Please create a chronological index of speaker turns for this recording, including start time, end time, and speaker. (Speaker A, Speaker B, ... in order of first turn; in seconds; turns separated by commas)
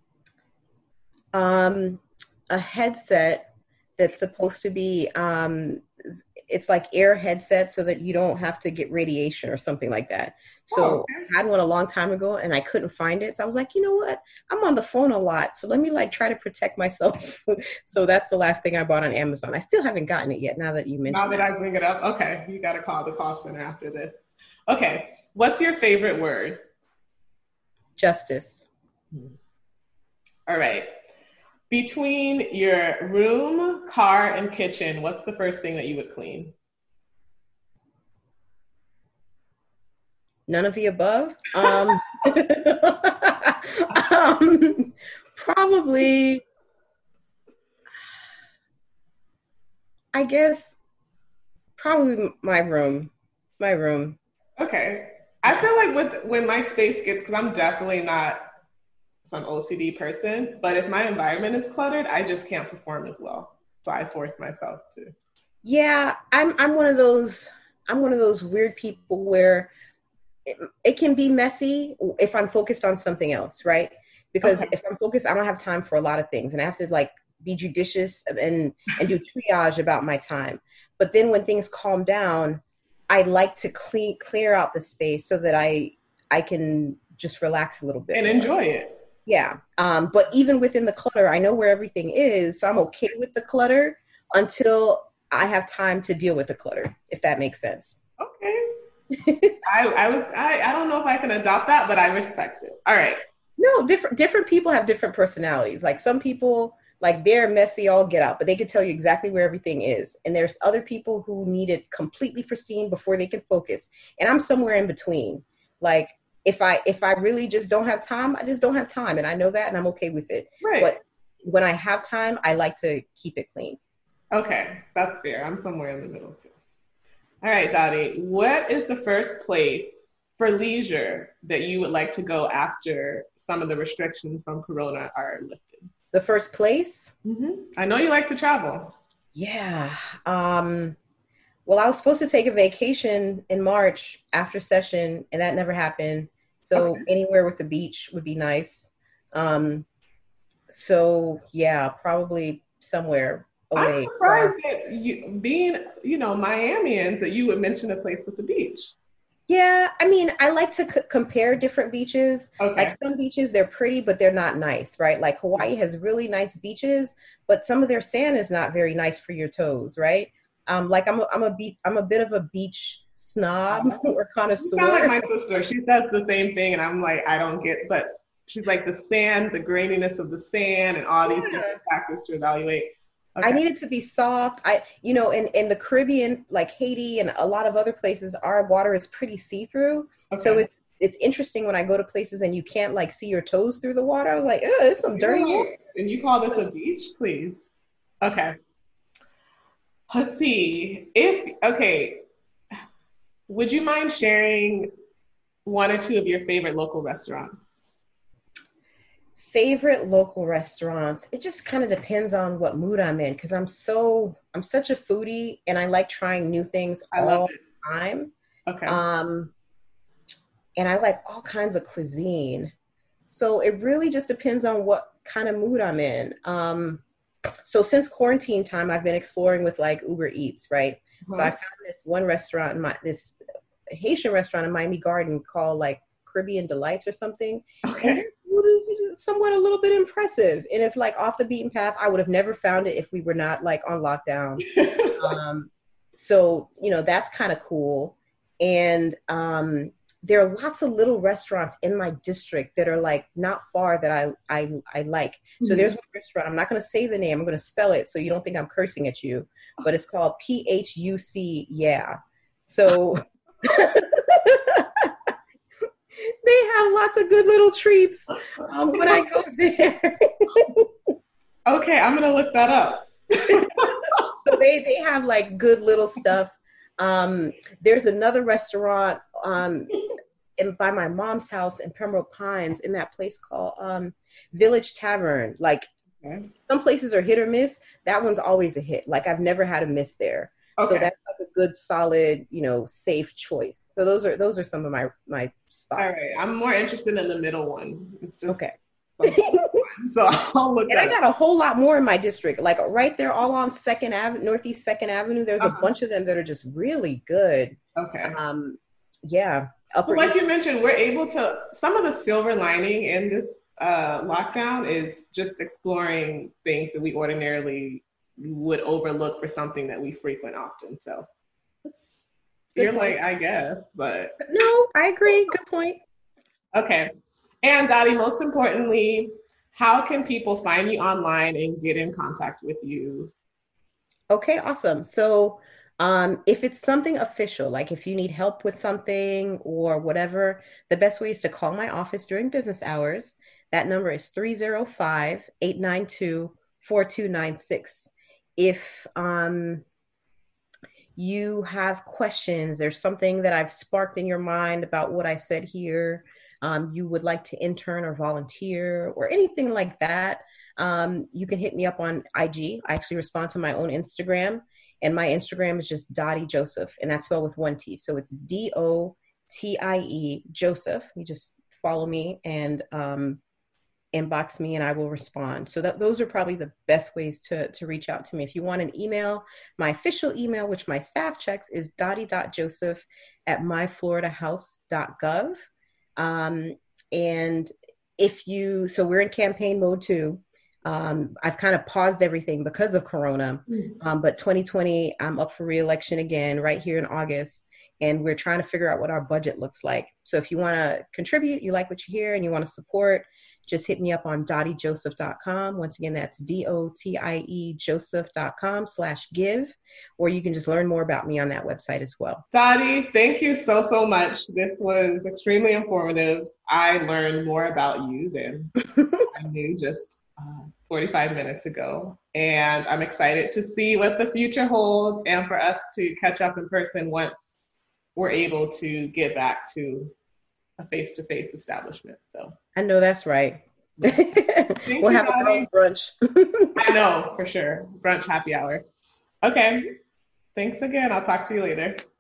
Speaker A: 1.3-21.5, Speaker B: 10.7-11.3, Speaker B: 21.1-26.6, Speaker A: 28.0-28.7, Speaker B: 30.5-30.9, Speaker B: 31.7-36.5, Speaker A: 40.5-46.4, Speaker A: 50.1-50.7, Speaker A: 51.8-54.2, Speaker B: 54.6-58.4, Speaker B: 59.2-65.2, Speaker A: 65.6-69.7, Speaker A: 70.5-88.5, Speaker B: 74.4-74.7, Speaker B: 88.1-89.0, Speaker A: 89.3-98.0, Speaker B: 98.2-98.7, Speaker A: 99.1-99.6, Speaker B: 99.7-103.2, Speaker A: 103.6-123.8, Speaker B: 120.6-120.9, Speaker B: 124.3-126.5, Speaker B: 127.4-135.9, Speaker A: 136.1-137.1, Speaker B: 137.2-139.0, Speaker A: 139.3-141.0, Speaker A: 141.7-149.9, Speaker B: 146.8-147.1, Speaker A: 150.7-154.6, Speaker B: 153.8-158.9, Speaker A: 159.5-175.3, Speaker B: 162.6-163.0, Speaker B: 174.6-183.6, Speaker A: 181.2-181.8, Speaker A: 183.4-195.7, Speaker B: 190.3-190.7, Speaker B: 195.2-197.6, Speaker B: 198.2-198.6, Speaker B: 200.1-202.2, Speaker B: 203.5-204.9, Speaker B: 205.7-207.7, Speaker A: 209.5-218.3, Speaker B: 217.1-217.6, Speaker B: 218.7-219.0, Speaker A: 218.9-219.5, Speaker A: 220.8-222.7, Speaker A: 223.3-227.0, Speaker A: 227.7-233.4, Speaker B: 231.2-231.5, Speaker A: 233.9-262.1, Speaker B: 237.8-238.2, Speaker B: 244.6-245.4, Speaker B: 255.6-255.9, Speaker A: 262.7-265.3, Speaker A: 266.2-270.9, Speaker B: 271.7-274.2, Speaker A: 274.4-285.9, Speaker B: 286.2-286.5, Speaker A: 286.7-296.3, Speaker B: 290.8-291.1, Speaker B: 296.0-298.7, Speaker B: 299.2-301.1, Speaker A: 299.2-299.8, Speaker A: 300.9-310.4, Speaker B: 305.6-305.9, Speaker B: 308.0-308.4, Speaker B: 310.1-321.3, Speaker B: 321.9-322.1, Speaker A: 322.8-323.2, Speaker B: 322.8-324.4, Speaker A: 324.4-326.0, Speaker B: 326.8-327.1, Speaker B: 327.6-333.3, Speaker A: 334.3-349.9, Speaker A: 351.2-373.4, Speaker A: 374.1-385.6, Speaker A: 386.2-412.4, Speaker B: 412.5-418.8, Speaker A: 419.0-419.2, Speaker B: 419.3-427.5, Speaker B: 428.1-430.1, Speaker B: 430.8-432.6, Speaker A: 432.8-436.8, Speaker B: 434.9-435.7, Speaker B: 436.8-438.8, Speaker B: 439.4-439.9, Speaker B: 440.6-442.0